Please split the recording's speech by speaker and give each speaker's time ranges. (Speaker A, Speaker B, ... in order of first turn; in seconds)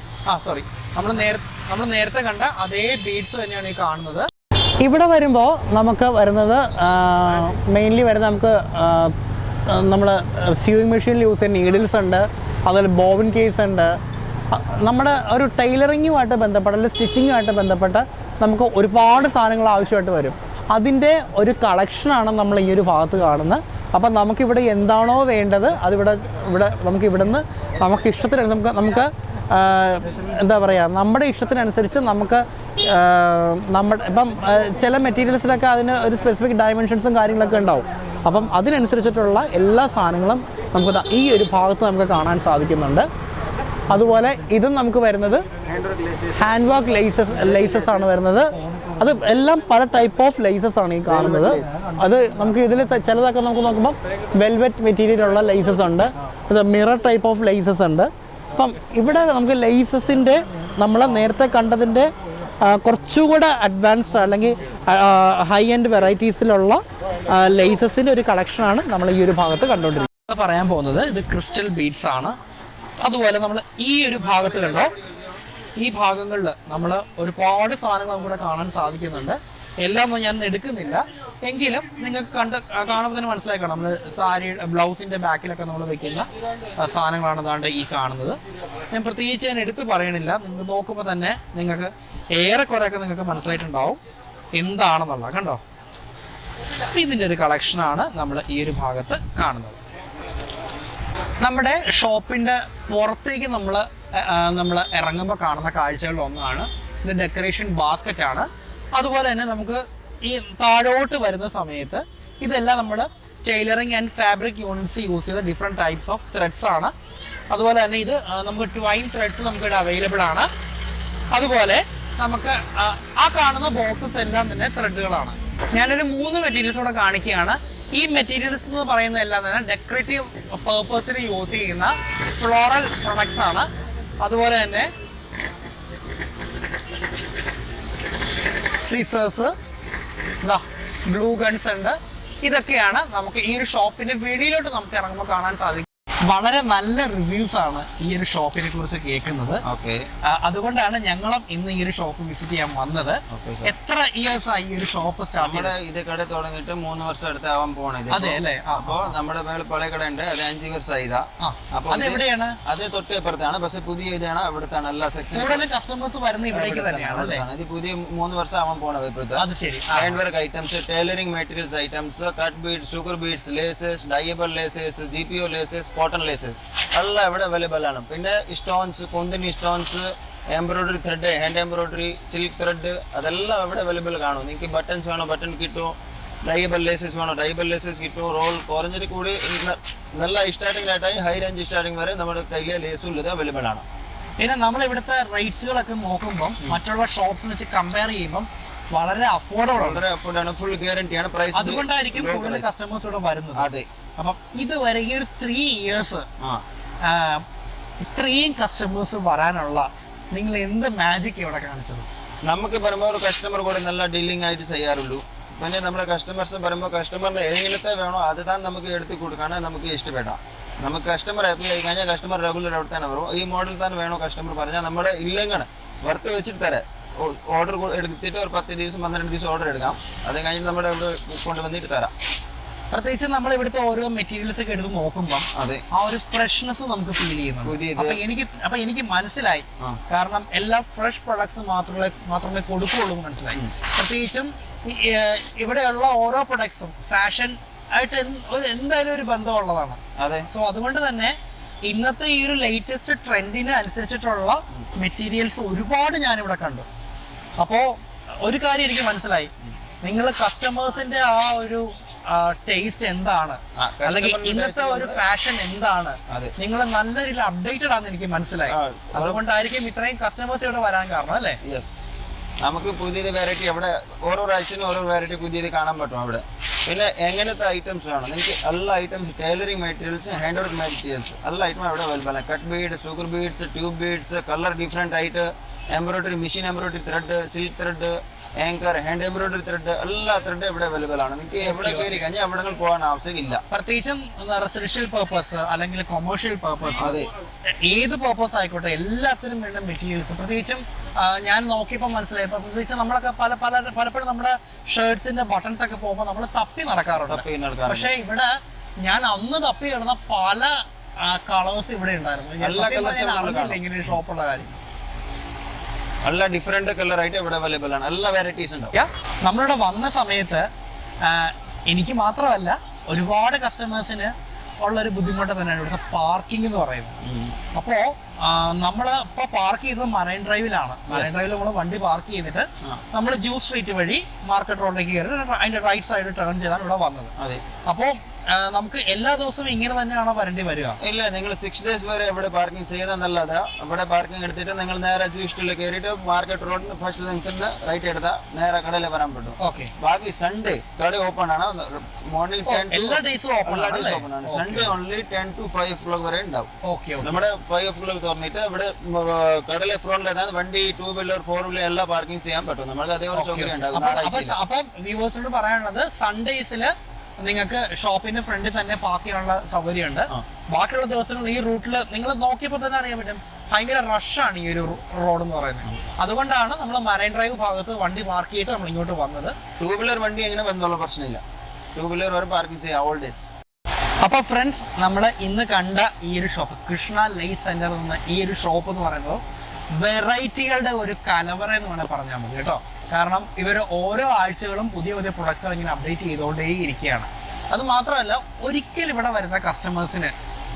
Speaker A: 0.3-4.2, 4.8-13.9, 14.5-43.1, 43.9-45.5, 46.4-72.3, 73.0-74.9, 75.8-88.4, 88.9-94.0, 94.5-95.6, 96.9-99.8, 101.4-116.9, 117.5-120.5, 121.3-133.7, 134.2-134.9, 138.7-139.5, 140.4-149.6, 150.2-155.7, 158.1-159.1, 161.4-162.6, 165.3-167.4, 169.3-170.2, 194.4-200.0, 201.5-206.3, 207.0-207.4, 208.0-212.1, 232.9-251.3, 251.8-256.9, 257.6-271.6, 291.6-292.2, 293.7-297.1, 297.8-308.5, 309.0-314.7, 318.9-320.7, 321.2-327.2, 327.7-337.3, 337.9-341.0, 349.6-349.9, 352.6-354.9, 356.8-357.4, 363.3-379.5, 384.2-389.4, 389.9-400.3
Speaker B: 45.6-46.5, 51.1-51.7, 149.6-150.1, 153.3-153.7, 155.4-165.7, 166.5-193.8, 199.7-202.6, 203.6-203.9, 212.4-232.1, 235.5-235.8, 237.6-238.2, 250.2-250.5, 263.8-265.2, 268.7-269.4, 271.6-272.1, 272.6-293.6, 297.0-297.3, 307.1-308.1, 312.6-314.0, 316.2-318.9, 327.2-327.6, 331.1-331.4, 337.4-337.6, 341.0-356.7, 357.2-364.5, 379.8-381.4, 381.9-383.5